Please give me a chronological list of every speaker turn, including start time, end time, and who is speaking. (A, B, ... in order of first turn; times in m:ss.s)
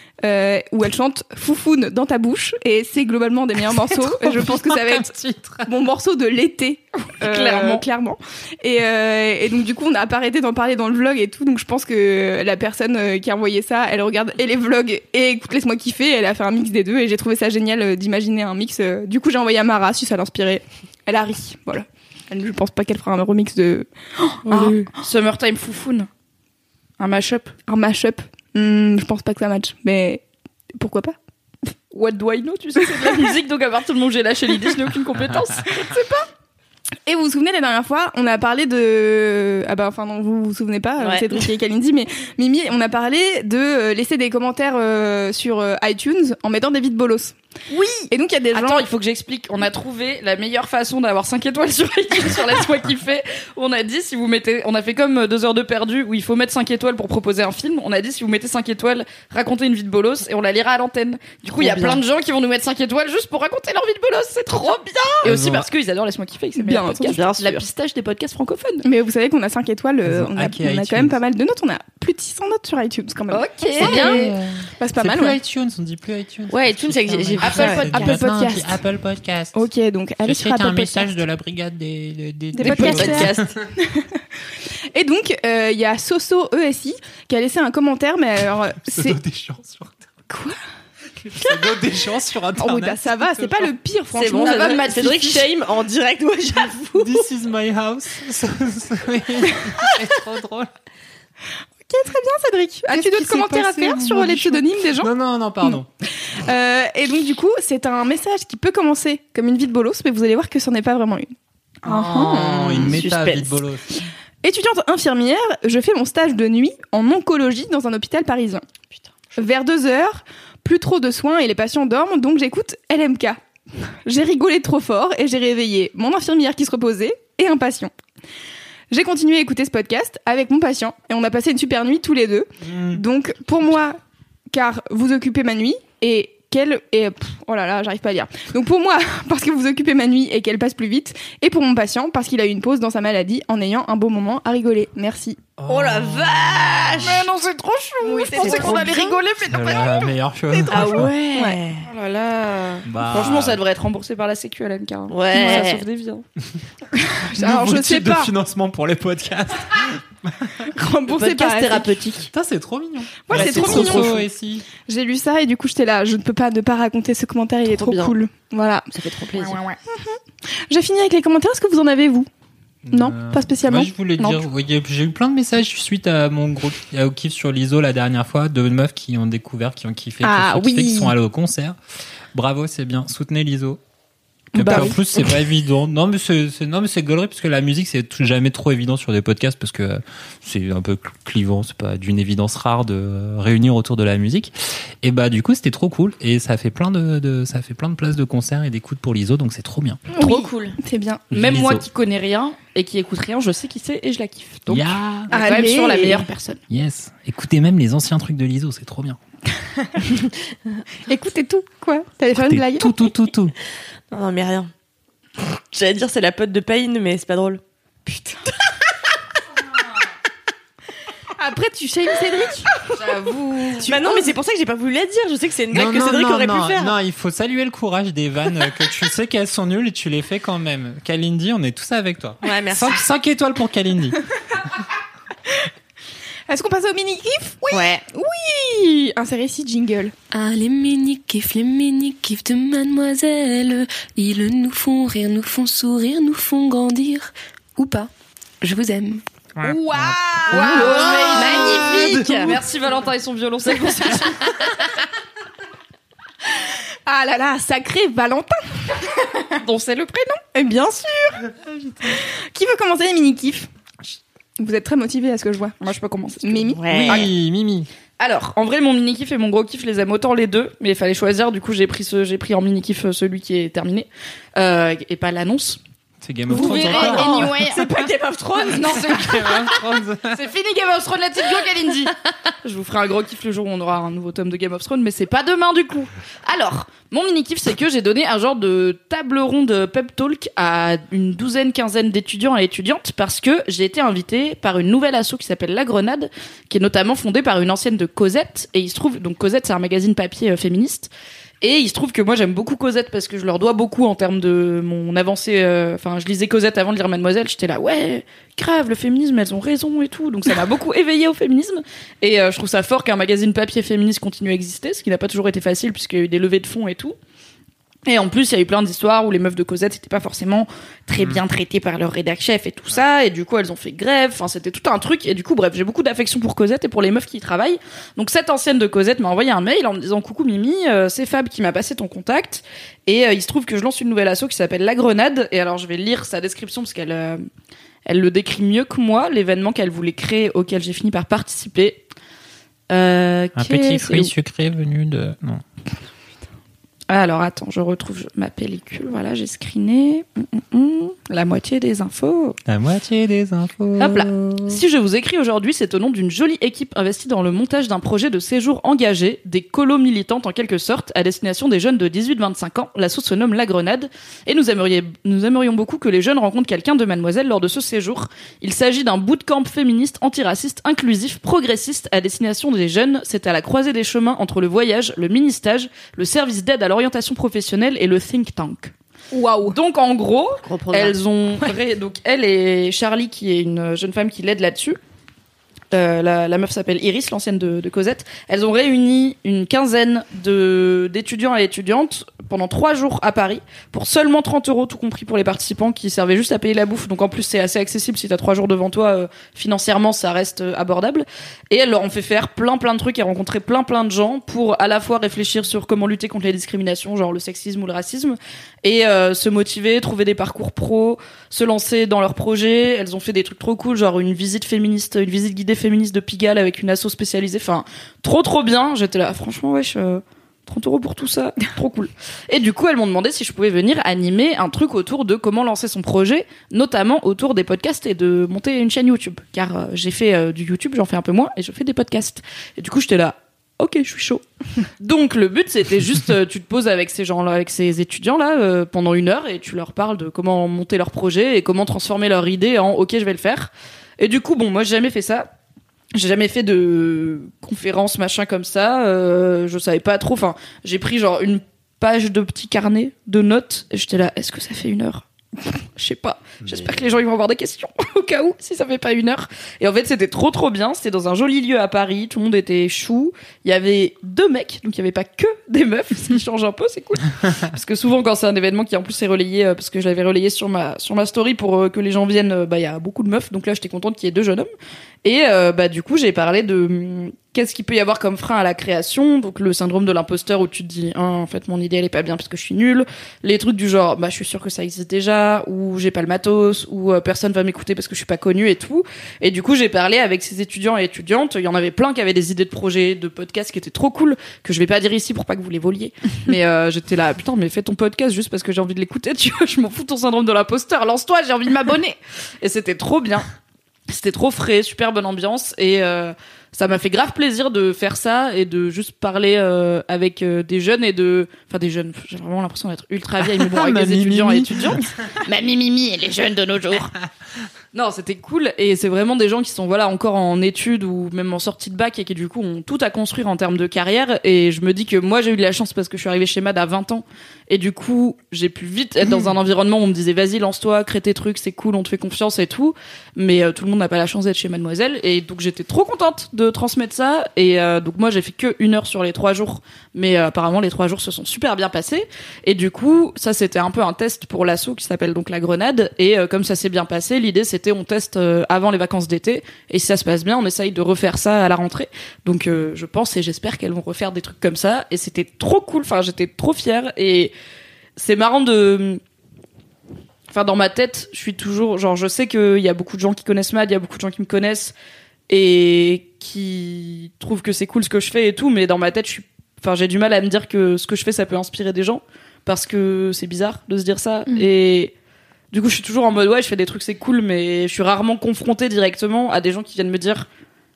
0:00.2-0:05.1 A
0:03.8-0:05.7 B
0:05.6-0:24.9 A
0:07.2-0:07.8 C
0:24.5-0:26.1 C
0:27.0-0:27.5 C
0:27.7-0:30.2 A
0:30.8-0:31.2 A
0:31.9-0:36.0 C
0:35.8-0:36.2 A
0:37.1-0:47.4 A
0:41.0-0:41.5 D
0:48.1-0:48.8 A
0:48.5-1:08.8 C
1:01.5-1:02.0 D
1:05.2-1:05.7 B
1:06.6-1:07.2 A
1:07.1-1:07.6 D
1:08.8-1:15.4 A
1:10.0-1:11.2 B
1:13.3-1:14.3 C
1:13.8-1:14.2 D
1:14.0-1:19.6 B
1:16.5-1:18.2 D
1:17.4-1:18.8 A
1:19.5-1:21.2 A
1:20.2-1:23.5 B
1:22.5-1:24.2 A
1:22.6-1:23.4 C
1:24.9-1:29.2 A
1:28.9-1:30.0 B
1:30.3-1:30.6 A
1:31.2-1:33.7 B
1:32.6-1:35.5 A
1:34.1-1:37.3 D
1:34.4-1:34.9 C
1:37.0-1:40.7 B
1:41.9-1:51.3 A
1:42.9-1:45.9 B
1:51.8-1:53.0 A
1:51.8-1:54.0 B
1:52.3-1:53.6 D
1:54.4-1:58.6 A
1:59.4-2:03.4 A
2:04.0-2:07.9 A
2:08.9-2:14.0 A
2:12.6-2:13.0 B
2:14.5-2:25.4 A
2:25.6-2:27.2 B
2:25.7-2:27.2 D
2:27.0-2:30.1 C
2:28.0-2:29.2 A
2:28.4-2:29.2 D
2:29.5-2:31.1 B
2:30.5-2:31.4 A
2:30.7-2:31.9 D
2:31.4-2:36.2 C
2:32.9-2:33.6 B
2:35.1-2:35.8 D
2:37.0-2:38.3 A
2:37.3-2:40.5 B
2:40.6-2:42.0 A
2:41.1-2:42.3 D
2:42.3-2:44.7 B
2:43.2-2:44.2 A
2:43.4-2:44.1 D
2:44.9-2:48.9 A
2:47.7-2:48.1 D
2:48.9-2:49.6 D
2:49.4-2:50.2 A
2:50.7-2:52.3 A
2:52.8-3:01.8 B
2:52.9-2:54.4 A
3:00.2-3:01.2 A
3:02.3-3:03.8 B
3:04.5-3:20.0 B
3:04.6-3:05.0 A
3:04.6-3:04.9 C
3:20.1-3:21.2 A
3:20.2-3:20.8 D
3:21.3-3:21.8 B
3:21.3-3:26.6 C
3:24.7-3:25.3 B
3:25.3-3:26.3 A
3:26.7-3:29.2 B
3:31.1-3:32.9 A
3:32.4-3:33.6 B
3:34.1-3:34.7 D
3:35.4-3:37.6 D
3:41.4-3:42.9 A
3:43.0-3:44.0 C
3:43.8-3:46.9 D
3:45.7-3:54.2 B
3:52.4-3:53.0 D
3:56.5-4:00.1 A
3:57.7-3:58.0 D
4:00.3-4:08.1 E
4:08.6-4:09.2 E
4:09.6-4:12.5 B
4:09.6-4:11.8 A
4:10.5-4:14.8 C
4:10.6-4:12.6 D
4:17.1-4:19.2 A
4:19.5-4:20.4 C
4:20.5-4:23.7 A
4:24.6-4:25.8 A
4:25.8-4:27.3 C
4:26.4-4:26.9 A
4:26.7-4:27.3 D
4:26.9-4:27.9 B
4:28.2-4:35.8 C
4:36.2-4:37.5 B
4:36.5-4:38.1 A
4:36.5-4:37.5 C
4:36.5-4:39.1 D
4:38.6-5:01.1 C
4:38.9-4:40.4 B
5:01.6-5:17.2 C
5:18.1-5:37.4 C
5:38.1-5:42.0 C
5:42.9-5:44.3 C
5:43.6-5:45.6 B
5:47.1-5:52.6 C
5:52.7-5:54.8 B
5:54.0-6:18.9 C
6:19.3-6:19.8 A
6:19.7-6:25.0 C
6:20.6-6:21.2 D
6:25.9-7:14.4 C
7:15.0-7:25.5 C
7:26.1-7:35.2 C
7:36.0-7:54.7 C
7:55.2-8:23.5 C
8:24.1-8:37.1 C
8:33.4-8:35.1 B
8:37.9-9:17.5 C
9:18.2-9:19.2 C
9:20.5-9:24.9 C
9:25.5-9:35.1 C
9:35.7-9:40.5 C